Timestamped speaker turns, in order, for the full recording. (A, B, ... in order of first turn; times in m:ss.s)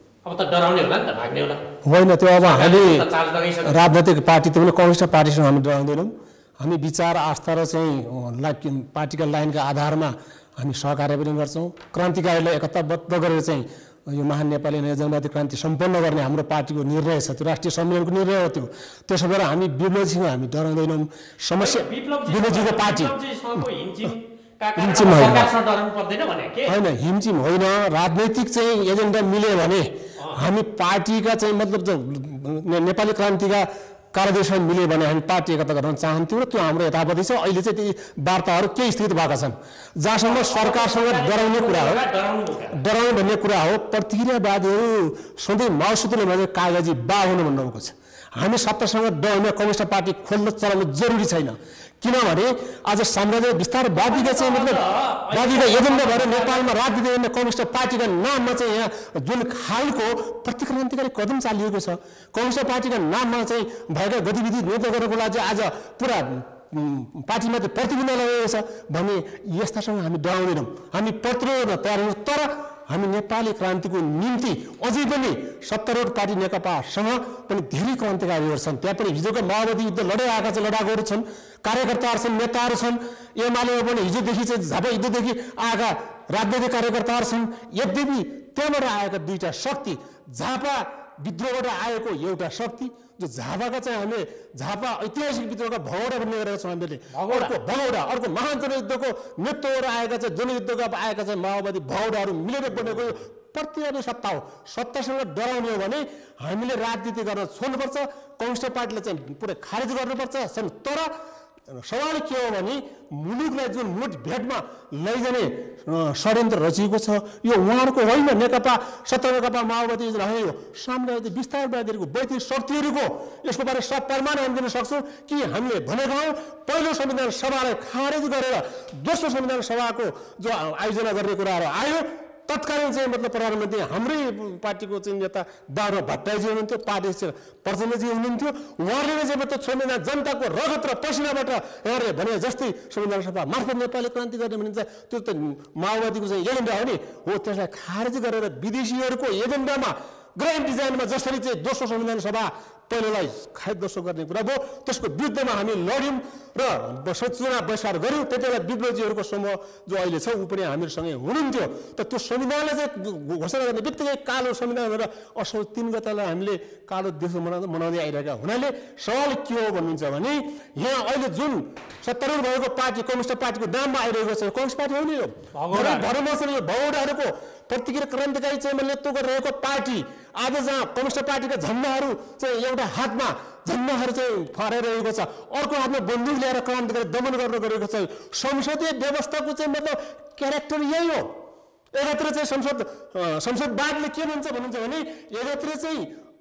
0:00.2-0:01.6 A
0:01.8-0:03.0 B
0:02.4-0:03.8 A
0:03.7-0:23.1 B
0:21.6-0:26.8 A
0:24.8-0:25.5 B
0:26.7-0:42.0 B
0:40.2-0:42.8 A
0:42.8-1:51.1 B
0:54.1-0:56.7 A
1:37.1-1:37.6 A
1:51.7-3:11.3 B
2:55.6-2:56.1 A
3:12.0-3:16.1 B